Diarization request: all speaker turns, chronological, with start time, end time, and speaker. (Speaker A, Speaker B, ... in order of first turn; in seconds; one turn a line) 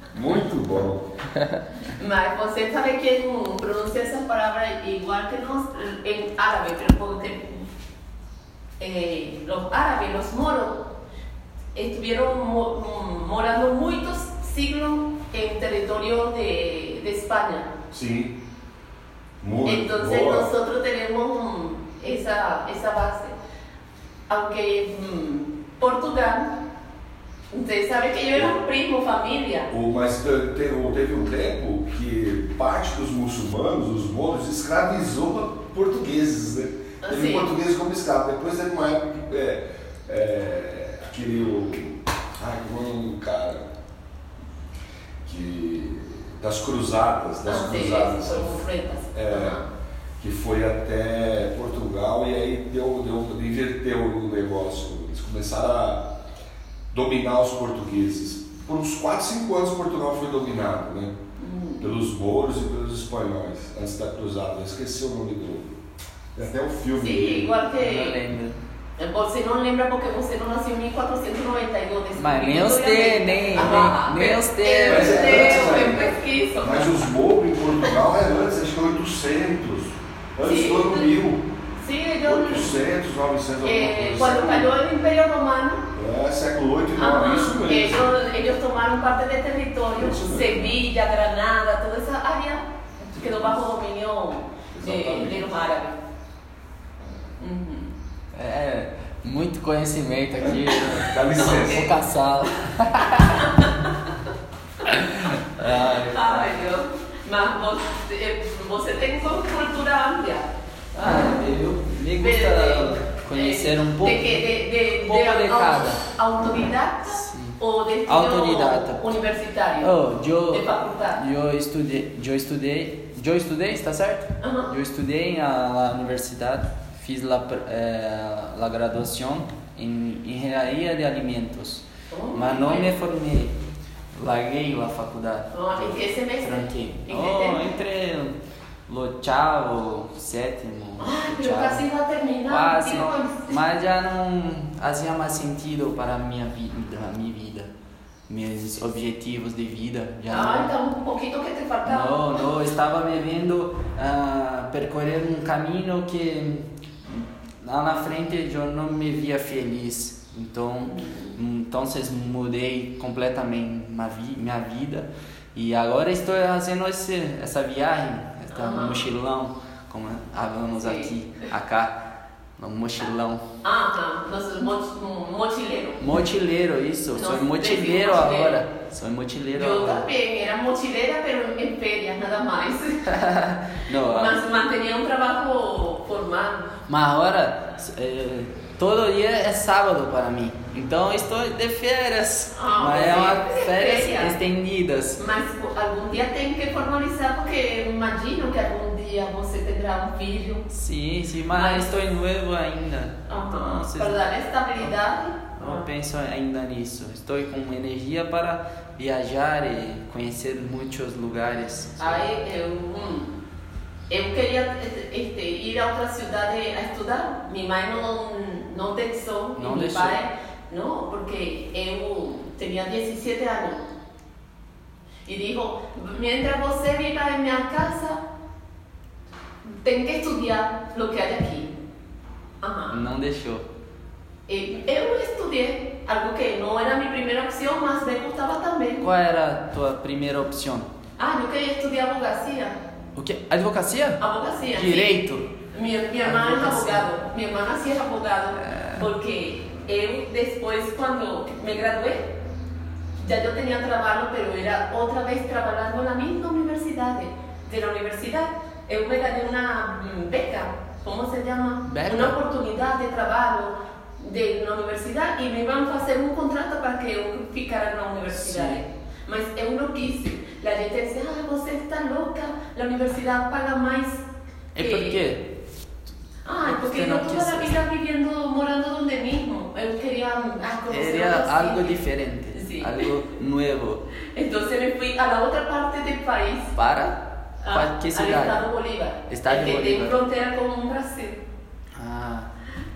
Speaker A: 0.1-1.1
Speaker B: 1.3-1.6
Speaker C: 1.9-7.7
Speaker C: 8.8-10.9
Speaker C: 11.8-17.7
Speaker A: 17.9-18.4
Speaker A: 19.4-20.5
Speaker C: 19.6-23.4
Speaker C: 24.3-26.6
Speaker C: 27.5-29.7
Speaker A: 29.7-43.7
Speaker C: 37.0-37.5
Speaker A: 45.2-48.6
Speaker C: 47.5-49.7
Speaker A: 49.1-49.6
Speaker A: 50.2-56.1
Speaker A: 56.9-61.2
Speaker C: 61.4-61.9
Speaker A: 61.8-65.8
Speaker A: 66.3-67.5
Speaker C: 67.0-68.2
Speaker B: 67.8-68.6
Speaker C: 69.0-77.1
Speaker B: 72.2-75.9
Speaker A: 74.9-81.5
Speaker C: 80.4-81.2
Speaker C: 81.8-82.8
Speaker A: 82.2-84.7
Speaker C: 83.6-85.8
Speaker A: 85.9-88.1
Speaker C: 87.0-96.0
Speaker A: 90.0-90.8
Speaker A: 94.7-95.5
Speaker C: 97.4-97.9
Speaker B: 98.3-103.6
Speaker A: 100.4-101.9
Speaker C: 101.4-101.9
Speaker C: 103.2-104.1
Speaker B: 104.9-106.4
Speaker C: 105.6-110.5
Speaker B: 111.0-114.5
Speaker C: 112.2-119.9
Speaker B: 115.0-116.0
Speaker B: 117.0-119.1
Speaker B: 119.8-133.6
Speaker C: 120.5-121.2
Speaker C: 124.4-124.7
Speaker C: 132.1-132.9
Speaker B: 134.2-141.8
Speaker C: 135.5-137.7
Speaker C: 141.0-143.6
Speaker B: 142.5-147.7
Speaker B: 148.3-150.8
Speaker C: 150.3-152.5
Speaker B: 151.9-173.4
Speaker C: 160.9-161.4
Speaker C: 168.5-169.1
Speaker C: 170.8-171.1
Speaker C: 173.6-176.0
Speaker B: 176.0-180.1
Speaker C: 177.1-178.7
Speaker C: 179.6-183.1
Speaker B: 183.1-184.4
Speaker C: 184.0-186.7
Speaker B: 186.9-195.2
Speaker C: 192.6-194.4
Speaker C: 195.2-200.7
Speaker B: 200.7-204.2
Speaker C: 201.5-201.9
Speaker C: 203.3-205.9
Speaker B: 205.6-212.2
Speaker C: 212.0-213.3
Speaker C: 214.1-223.8
Speaker B: 219.6-220.2
Speaker C: 225.3-228.2
Speaker C: 229.8-231.7
Speaker C: 232.6-233.0
Speaker B: 232.9-233.7
Speaker C: 234.5-239.1
Speaker B: 239.0-240.9
Speaker C: 241.2-242.8
Speaker B: 243.2-244.2
Speaker C: 244.2-252.3
Speaker B: 244.7-245.5
Speaker B: 246.2-247.1
Speaker B: 248.6-249.1
Speaker C: 253.2-275.2
Speaker B: 261.9-262.4
Speaker B: 268.3-268.8
Speaker B: 274.8-275.4
Speaker C: 276.4-282.0
Speaker B: 276.6-277.8
Speaker B: 280.9-284.0
Speaker C: 282.5-283.1
Speaker C: 284.3-286.7
Speaker B: 286.8-288.6
Speaker C: 287.6-291.4
Speaker B: 289.3-290.1
Speaker B: 291.9-292.5